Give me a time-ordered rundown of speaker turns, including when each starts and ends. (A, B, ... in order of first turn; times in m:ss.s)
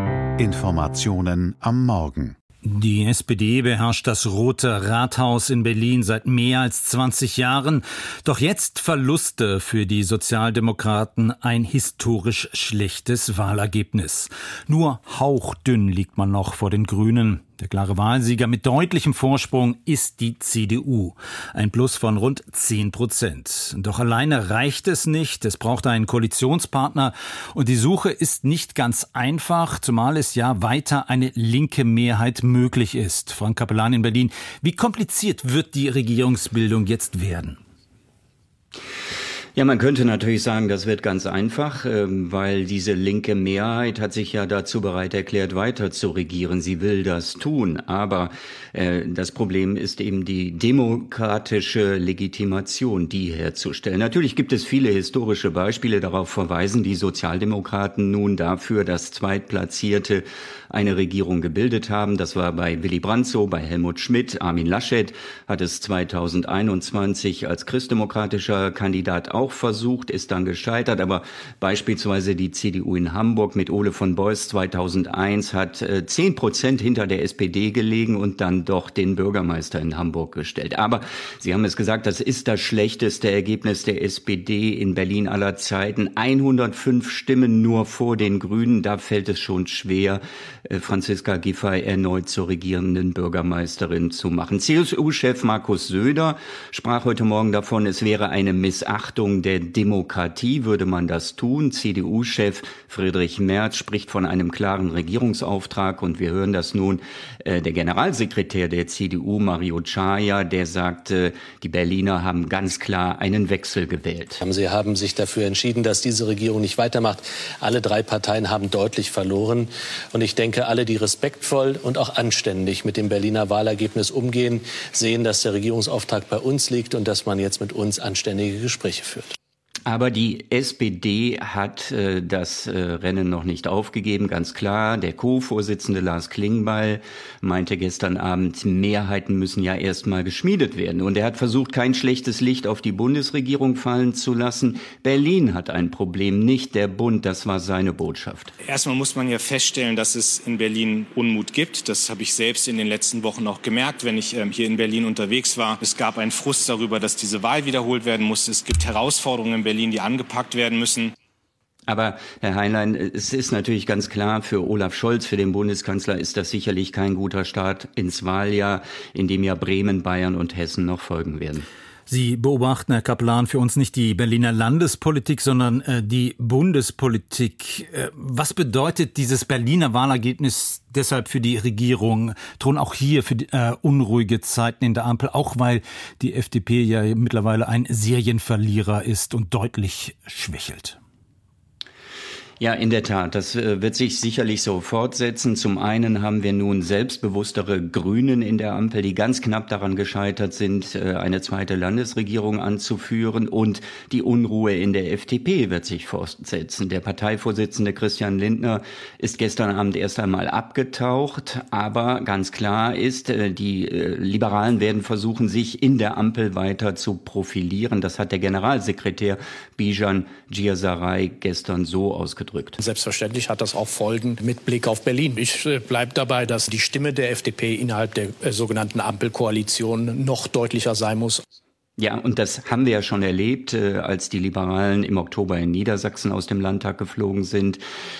0:00.4-0:02.4 A
0:02.6-0:37.6 B
0:39.6-1:54.4 C
1:54.4-2:09.3 D
2:09.9-2:28.5 C
2:28.6-2:41.2 E
2:41.9-2:51.7 C
2:52.1-3:11.0 B
3:12.6-3:42.8 C
3:42.8-3:51.4 F
3:52.0-3:57.8 C